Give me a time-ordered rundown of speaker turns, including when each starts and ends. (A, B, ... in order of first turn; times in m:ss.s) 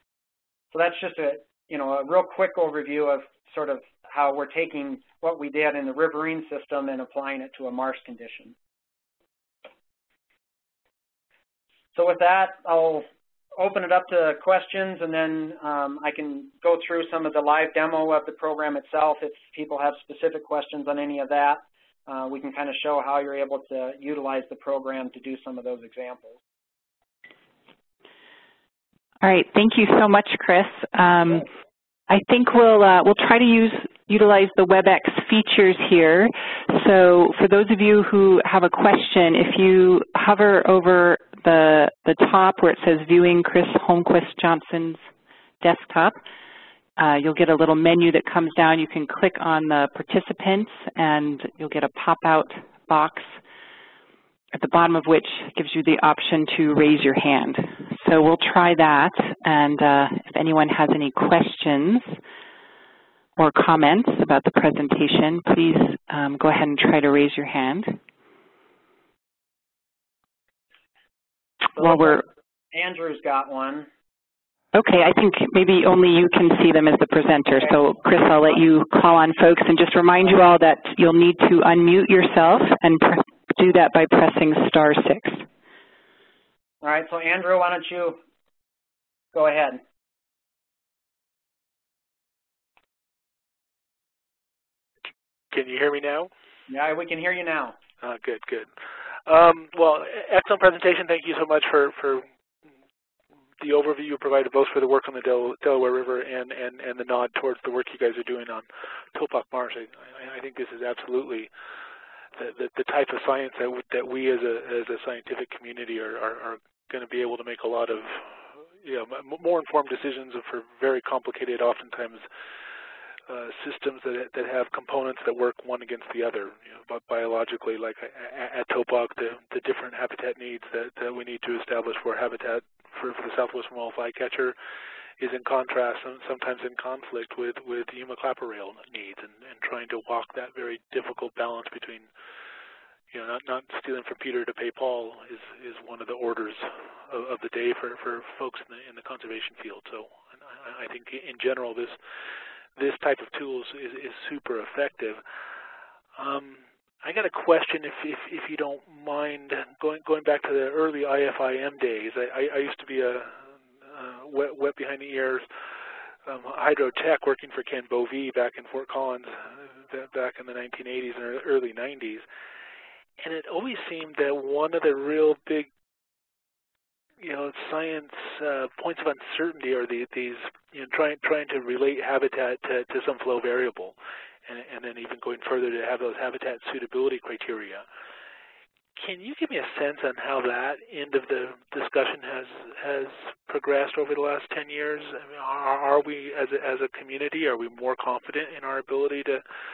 0:00.7-0:08.6 A
0:12.0-0:13.1 A
0:13.6-0:26.4 A
0:29.2-0:31.5 B
0:32.1-0:45.0 B
0:45.6-0:46.2 B
0:47.0-0:53.4 B
0:54.5-1:02.2 B
1:03.4-1:08.0 B
1:11.8-1:13.9 A
1:11.8-1:12.2 B
1:14.7-1:25.4 B
1:26.8-1:28.2 A
1:29.3-1:29.8 A
1:35.5-1:36.3 C
1:36.7-1:37.8 A
1:38.0-1:38.7 C
1:39.3-1:42.3 C
1:43.6-1:51.5 C
1:52.4-2:02.3 C
2:03.3-2:14.6 C
2:15.2-2:22.1 C
2:23.1-2:32.0 C
2:32.8-2:35.2 C
2:36.2-2:45.5 C
2:46.2-2:52.2 C
2:53.2-2:55.7 C
2:57.2-3:04.0 C
3:04.5-3:07.8 C
3:09.0-3:19.4 C